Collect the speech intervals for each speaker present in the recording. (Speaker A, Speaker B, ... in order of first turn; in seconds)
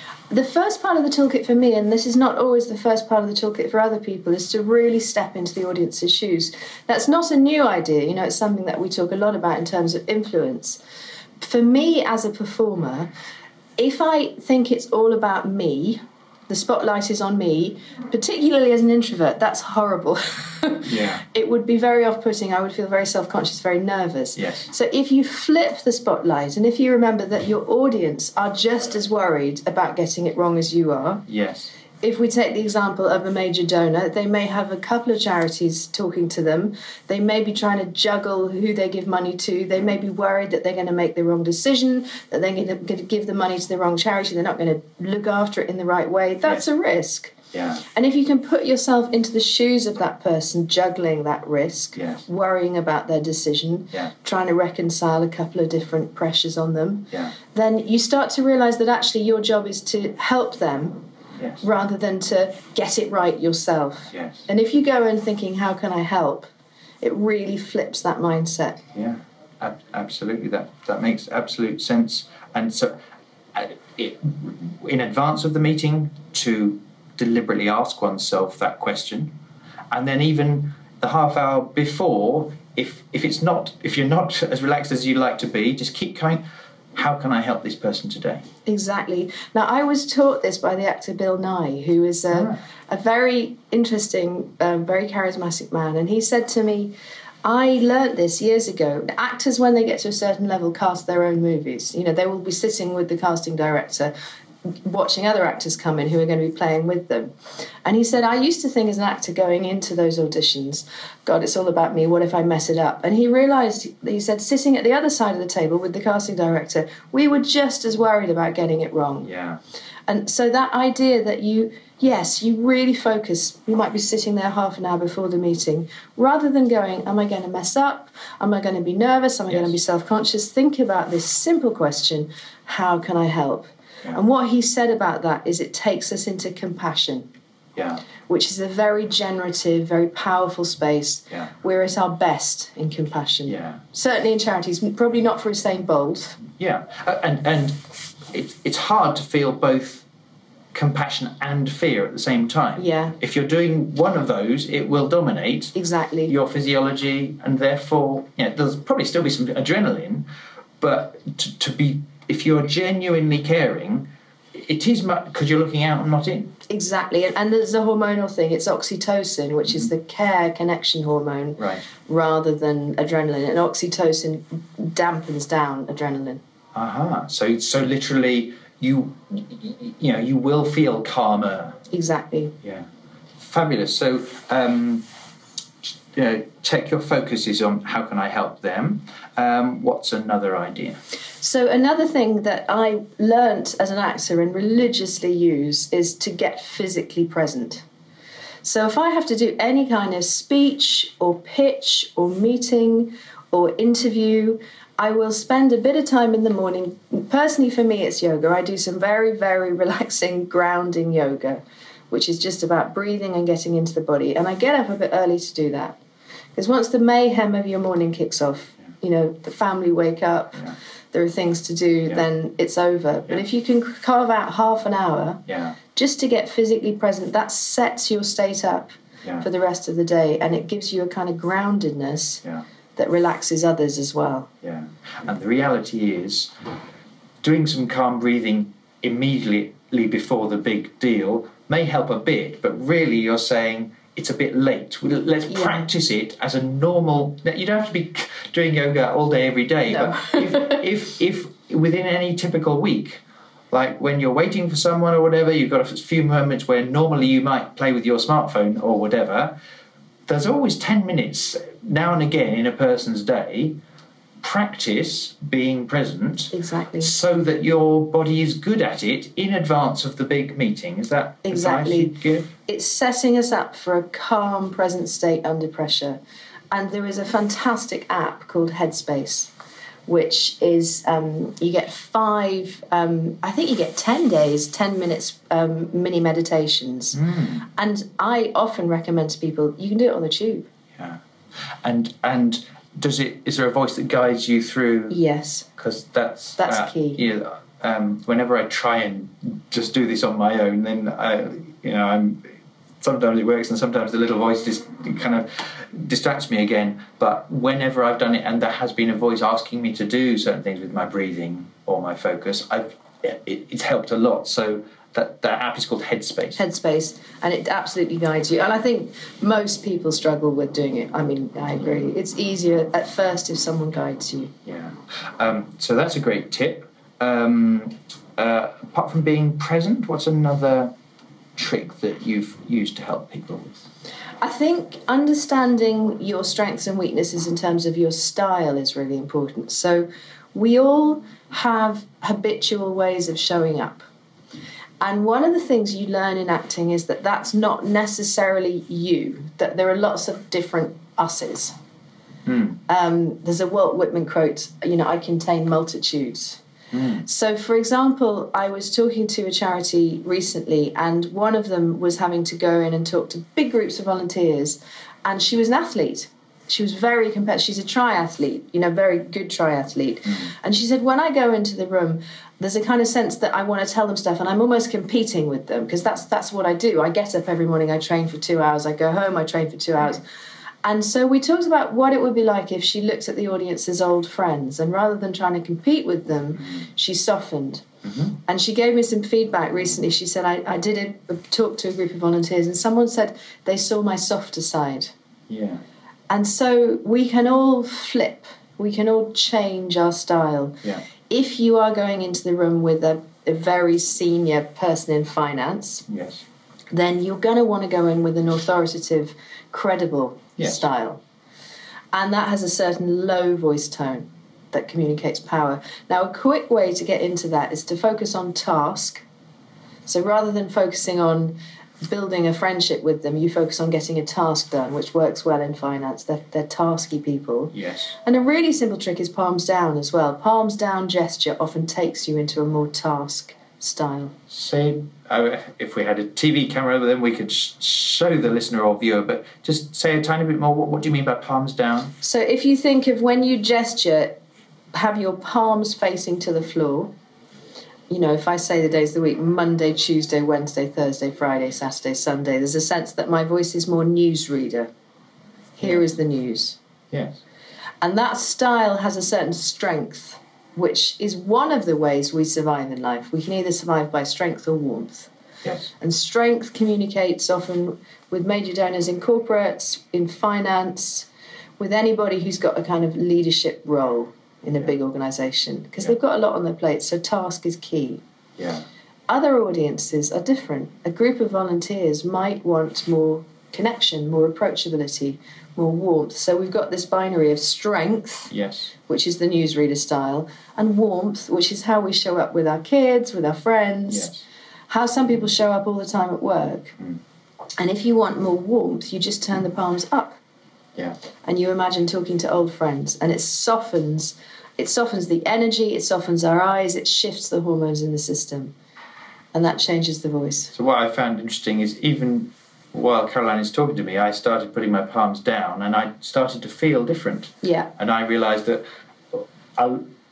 Speaker A: 0.3-10.8, 11.4-13.1, 13.8-31.2, 32.0-47.4, 47.9-61.1, 61.6-66.5, 67.0-68.8, 88.7-104.1, 104.8-107.3, 107.8-119.3, 120.1-137.3, 138.3-146.4, 152.8-153.2, 155.7-156.3, 166.7-176.4, 181.9-182.5, 191.4-197.8, 198.6-216.0, 216.6-225.4, 225.9-232.4, 232.9-234.5, 245.5-245.8, 249.9-250.8, 266.5-267.1, 271.4-272.1, 272.6-276.2, 276.7-279.5, 280.1-290.7, 295.1-295.7, 296.6-297.2, 316.6-324.5, 334.4-344.1, 345.0-351.7, 352.9-356.6, 357.2-380.2, 380.8-387.8, 388.4-395.1, 396.3-406.0, 406.9-411.2, 412.1-419.2, 420.1-427.7, 428.2-434.3, 442.2-444.4, 444.9-447.1, 448.1-454.9, 455.8-456.8, 458.0-465.3, 466.0-471.3, 471.8-478.2, 479.3-488.5, 489.1-494.3, 494.9-496.9, 497.8-500.4, 501.4-508.7, 509.5-510.7, 517.6-517.9
Speaker B: 20.9-21.2, 24.4-24.7, 31.3-31.7, 47.5-47.8, 52.0-52.2, 64.1-64.5, 68.9-73.0, 73.5-79.3, 79.9-86.4, 86.9-88.4, 119.2-119.6, 137.8-138.0, 143.5-143.8, 146.6-150.0, 150.7-155.7, 156.3-160.3, 160.8-166.6, 171.6-171.8, 176.7-181.8, 182.6-182.9, 183.4-185.1, 185.8-191.0, 225.5-225.8, 234.6-236.5, 237.4-259.6, 260.3-263.8, 264.4-272.5, 287.1-287.6, 291.8-295.2, 295.8-316.6, 324.6-330.9, 331.6-333.9, 352.4-352.8, 356.9-357.2, 388.0-388.4, 395.5-395.8, 406.1-406.4, 427.7-428.1, 434.5-442.1, 457.1-457.4, 465.6-465.9, 478.6-478.8, 488.5-488.9, 494.1-494.4, 510.7-520.1